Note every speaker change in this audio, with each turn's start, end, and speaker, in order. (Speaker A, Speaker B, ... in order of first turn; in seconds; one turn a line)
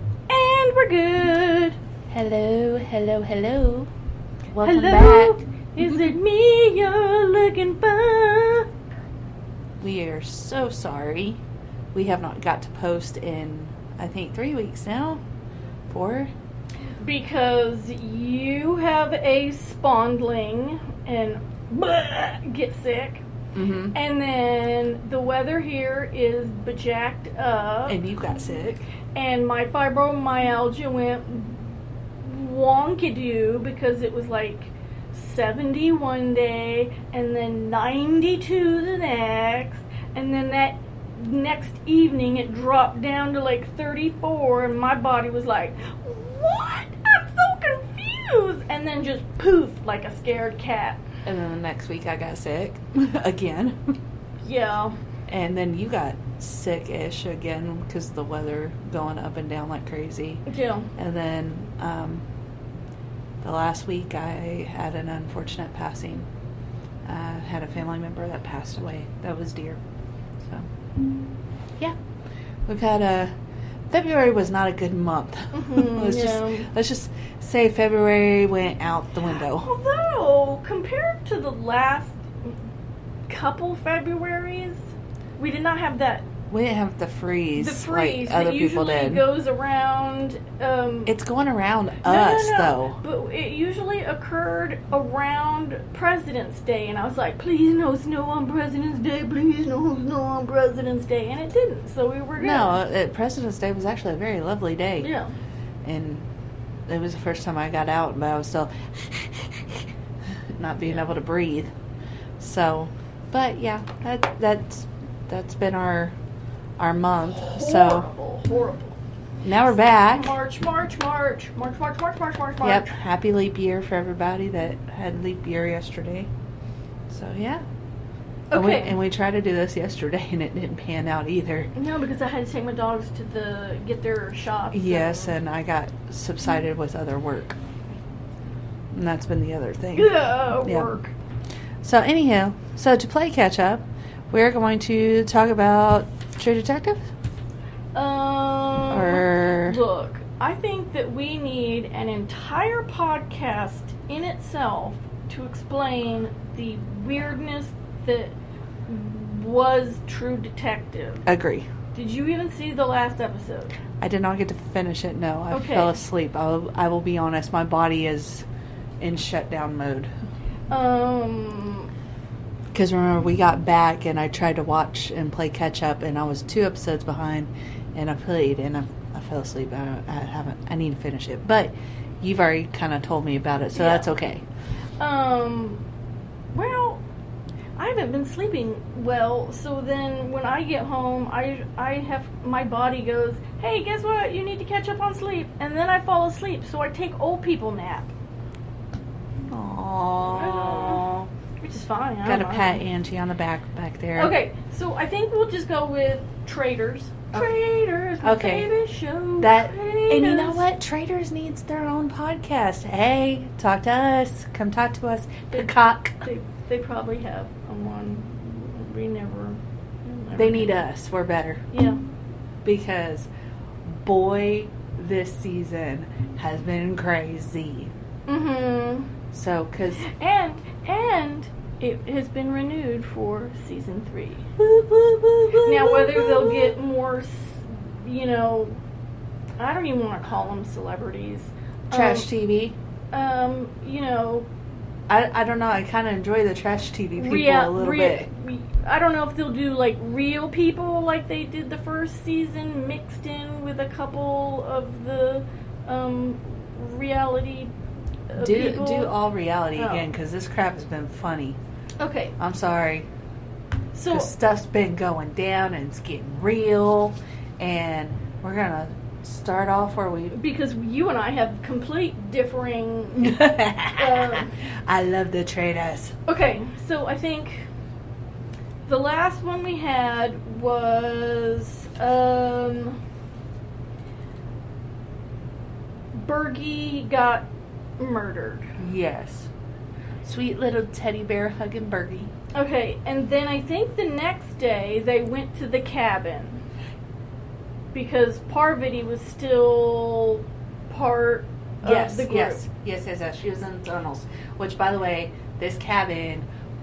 Speaker A: 0.3-1.8
Speaker B: 2.1-3.9
Speaker B: 4.5-5.4
Speaker A: 4.6-8.7
Speaker B: 9.8-11.4
Speaker B: 11.9-15.2
Speaker B: 15.9-16.3
Speaker A: 17.0-23.2
Speaker B: 23.5-23.9
Speaker A: 23.9-28.0
Speaker B: 27.9-28.8
Speaker A: 29.1-31.6
Speaker A: 32.2-51.0
Speaker B: 51.2-54.0
Speaker A: 54.4-55.0
Speaker B: 55.3-60.4
Speaker A: 60.5-60.9
Speaker B: 61.0-62.2
Speaker B: 63.4-66.3
Speaker B: 67.0-69.8
Speaker B: 72.7-73.3
Speaker B: 73.9-79.7
Speaker A: 75.5-76.7
Speaker A: 79.5-82.5
Speaker A: 83.3-86.3
Speaker B: 86.5-89.2
Speaker A: 87.6-91.1
Speaker B: 91.1-93.0
Speaker A: 92.0-102.8
Speaker B: 102.4-105.1
Speaker A: 105.0-105.3
Speaker B: 105.8-106.2
Speaker B: 106.9-109.9
Speaker B: 110.5-111.7
Speaker B: 112.4-116.2
Speaker B: 116.8-118.1
Speaker A: 117.3-119.0
Speaker B: 119.4-120.3
Speaker A: 120.1-122.9
Speaker B: 122.6-126.3
Speaker B: 127.1-127.6
Speaker A: 128.5-129.0
Speaker B: 128.5-131.7
Speaker A: 131.8-135.3
Speaker B: 134.7-137.6
Speaker B: 138.9-140.9
Speaker A: 140.0-141.1
Speaker B: 141.8-147.0
Speaker A: 147.9-158.3
Speaker B: 148.9-149.8
Speaker A: 158.9-161.3
Speaker B: 161.3-161.7
Speaker A: 161.9-163.7
Speaker B: 164.0-168.5
Speaker A: 165.5-165.9
Speaker B: 169.0-170.1
Speaker A: 170.7-171.9
Speaker B: 172.7-184.4
Speaker A: 183.7-184.1
Speaker A: 185.0-185.8
Speaker A: 186.5-187.0
Speaker A: 187.8-198.1
Speaker B: 199.5-201.3
Speaker A: 200.3-201.1
Speaker A: 201.6-202.8
Speaker B: 202.2-204.3
Speaker A: 204.2-210.7
Speaker B: 208.2-208.7
Speaker B: 209.4-216.2
Speaker A: 216.2-220.8
Speaker B: 220.3-221.6
Speaker A: 221.7-222.0
Speaker B: 222.6-223.3
Speaker B: 223.9-227.9
Speaker A: 228.3-229.1
Speaker B: 229.3-230.1
Speaker A: 230.0-234.5
Speaker B: 234.6-236.8
Speaker A: 235.7-238.8
Speaker A: 239.6-242.3
Speaker B: 241.9-242.8
Speaker A: 243.1-244.5
Speaker B: 245.1-248.3
Speaker A: 247.2-257.7
Speaker A: 258.3-259.2
Speaker B: 258.4-261.6
Speaker A: 259.8-260.1
Speaker A: 262.0-262.4
Speaker B: 262.4-263.1
Speaker A: 263.9-264.3
Speaker B: 264.1-270.4
Speaker A: 270.3-274.5
Speaker B: 273.2-276.1
Speaker A: 276.3-277.7
Speaker A: 278.9-283.0
Speaker A: 286.1-287.5
Speaker A: 288.0-288.7
Speaker B: 288.8-289.5
Speaker B: 290.2-292.3
Speaker A: 292.5-296.6
Speaker A: 297.9-302.6
Speaker B: 301.8-306.5